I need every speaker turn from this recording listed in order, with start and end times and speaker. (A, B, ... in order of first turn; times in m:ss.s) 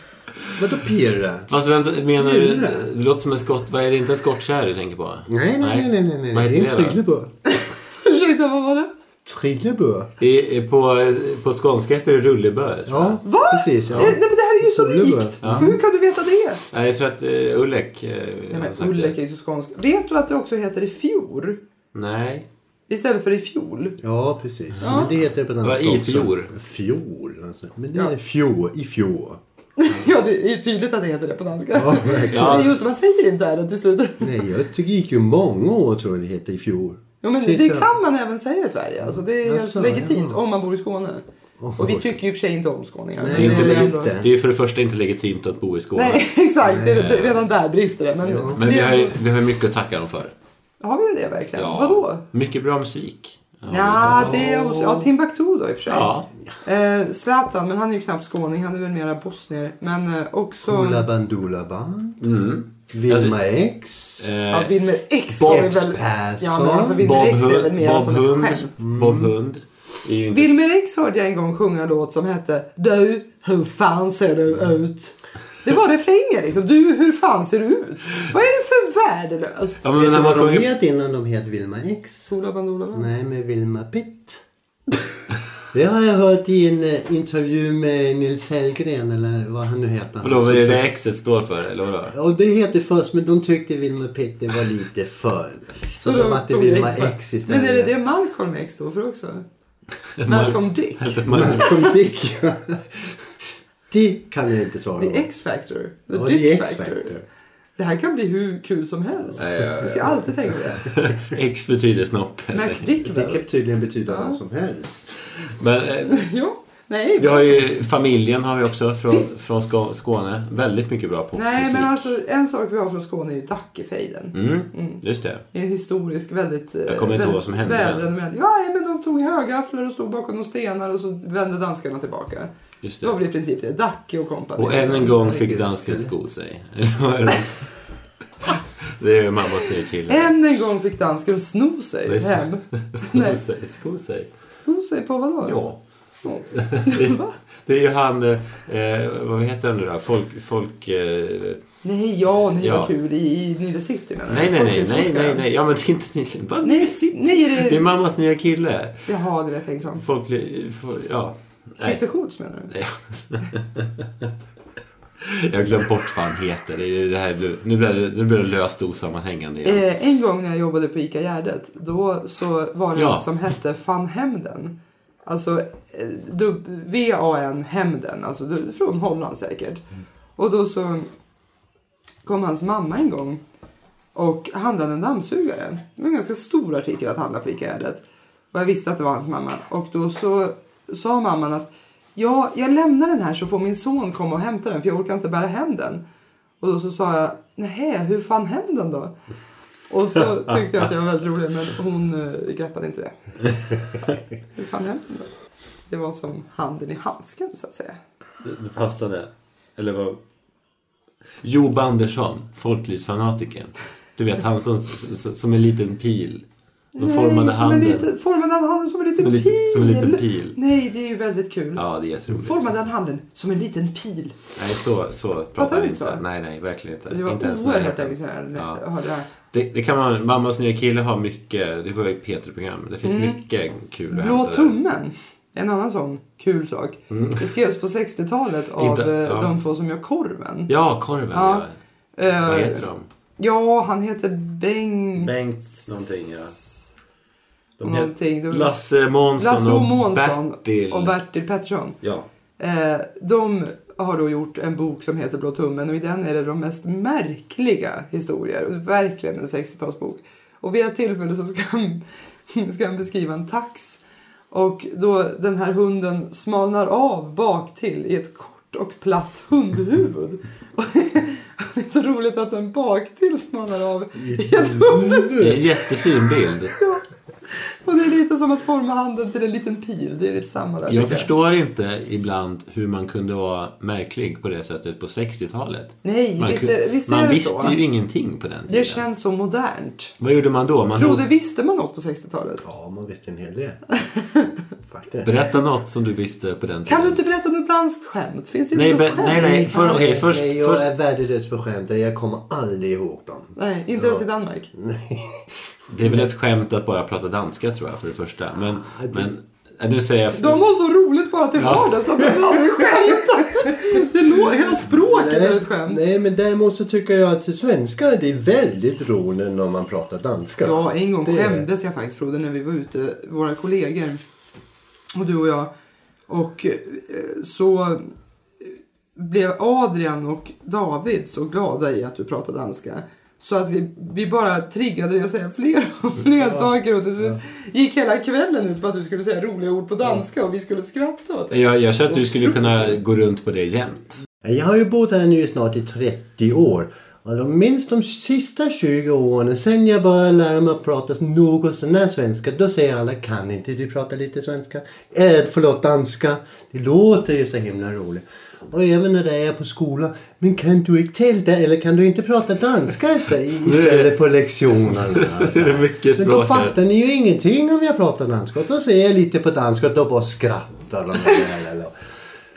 0:00.6-0:01.5 A
0:01.5-0:07.0 B
0:02.2-0:02.8 A
0:05.3-0:07.3 A
0:07.4-0:08.9 C
0:09.2-0:10.1 A
0:10.2-0:13.2 B
0:12.9-0:15.7 A
0:13.2-0:16.6 C
0:13.9-0:14.2 B
0:15.4-0:15.8 B
0:16.7-0:19.1 B
0:18.5-0:21.6 C
0:21.9-0:22.5 B
0:22.9-0:24.0 C
0:24.0-0:29.4 A
0:24.8-0:25.1 C
0:25.6-0:26.5 B
0:29.8-0:34.4 C
0:31.7-0:32.7 A
0:32.3-0:32.7 B
0:34.2-0:37.9 A
0:37.2-0:41.2 C
0:39.0-0:40.4 A
0:41.6-0:42.2 A
0:41.8-0:44.1 C
0:43.2-0:44.3 A
0:43.3-0:46.3 B
0:45.9-0:49.2 C
0:46.6-0:47.1 A
0:46.8-0:47.4 B
0:48.2-0:48.6 A
0:48.5-0:50.3 B
0:50.8-0:52.2 C
0:51.6-0:54.5 B
0:53.7-1:01.0 C
0:54.0-0:55.0 A
0:55.9-0:56.3 B
1:00.6-1:02.2 A
1:02.2-1:03.4 B
1:02.9-1:04.3 A
1:04.2-1:04.7 B
1:04.5-1:08.8 C
1:05.3-1:05.8 B
1:05.4-1:07.0 A
1:07.0-1:10.5 B
1:08.8-1:09.3 A
1:10.3-1:19.8 C
1:19.8-1:20.7 B
1:19.9-1:22.3 A
1:22.3-1:23.1 C
1:22.9-1:24.4 A
1:25.7-1:30.8 A
1:30.2-1:32.2 B
1:32.1-1:37.9 A
1:36.0-1:39.4 C
1:40.2-1:41.8 B
1:40.2-1:41.9 C
1:41.3-1:43.2 A
1:43.9-1:45.3 A
1:45.0-1:47.1 C
1:46.1-1:47.2 A
1:47.8-1:50.9 C
1:49.4-1:52.9 B
1:52.5-1:53.4 C
1:53.0-1:55.1 A
1:54.1-1:54.4 C
1:55.4-1:56.2 B
1:56.0-1:57.7 C
1:57.2-2:02.1 B
2:01.3-2:05.0 C
2:04.3-2:05.4 B
2:05.5-2:12.5 C
2:06.9-2:08.0 B
2:12.8-2:13.2 B
2:13.0-2:15.3 C
2:14.6-2:17.7 B
2:15.1-2:16.1 A
2:18.9-2:20.3 B
2:20.1-2:23.4 C
2:22.1-2:24.3 B
2:24.6-2:25.6 C
2:25.4-2:25.8 B
2:26.2-2:27.4 C
2:26.5-2:31.6 B
2:31.8-2:35.4 C
2:32.6-2:32.9 B
2:34.3-2:39.1 B
2:36.6-2:37.9 C
2:39.1-2:40.0 C
2:39.9-2:42.0 B
2:41.8-2:42.7 C
2:42.7-2:44.3 B
2:45.2-2:49.8 B
2:49.6-2:59.8 C
2:52.9-2:53.3 B
3:00.4-3:01.1 C
3:02.2-3:03.4 C
3:04.1-3:16.0 C
3:16.6-3:19.1 C
3:19.9-3:23.2 C
3:24.0-3:25.3 C
3:25.9-3:28.0 C
3:28.4-3:30.2 B
3:31.4-3:36.4 B
3:36.9-3:41.8 C
3:37.0-3:38.0 B
3:39.2-3:40.6 B
3:41.8-3:42.6 B
3:42.3-3:44.4 C
3:44.6-3:48.8 B
3:45.6-3:46.2 C
3:47.1-3:49.3 C
3:49.5-3:54.8 B
3:53.0-3:53.4 C
3:54.1-4:00.7 C
3:57.1-3:57.5 B
3:58.8-3:59.5 B
4:00.7-4:01.7 B
4:01.3-4:01.6 C
4:02.2-4:02.8 C
4:02.4-4:03.0 B
4:03.4-4:05.3 C
4:05.2-4:06.6 B
4:07.8-4:11.2 B
4:07.8-4:08.7 C
4:09.4-4:12.0 C
4:12.6-4:35.4 C
4:34.2-4:35.7 A
4:35.4-4:36.7 B
4:36.8-4:41.3 C
4:40.9-4:49.0 B
4:46.0-4:47.8 C
4:48.7-4:50.2 C
4:50.2-4:51.3 B
4:50.9-4:52.6 C
4:52.6-4:53.8 A
4:53.9-4:54.6 C
4:54.9-4:55.3 A
4:55.2-4:57.2 B
4:56.9-5:00.2 C
4:58.7-5:00.9 B
4:59.3-5:05.5 A
5:03.6-5:04.7 C
5:05.9-5:10.7 B
5:06.0-5:06.3 A
5:08.8-5:09.3 A
5:10.4-5:16.0 C
5:11.6-5:12.1 B
5:14.6-5:21.7 A
5:20.6-5:24.2 C
5:25.1-5:25.7 C
5:26.3-5:28.1 C
5:28.6-5:43.0 C
5:41.5-5:44.2 B
5:44.4-6:11.9 A
6:03.6-6:04.1 B
6:04.9-6:06.7 B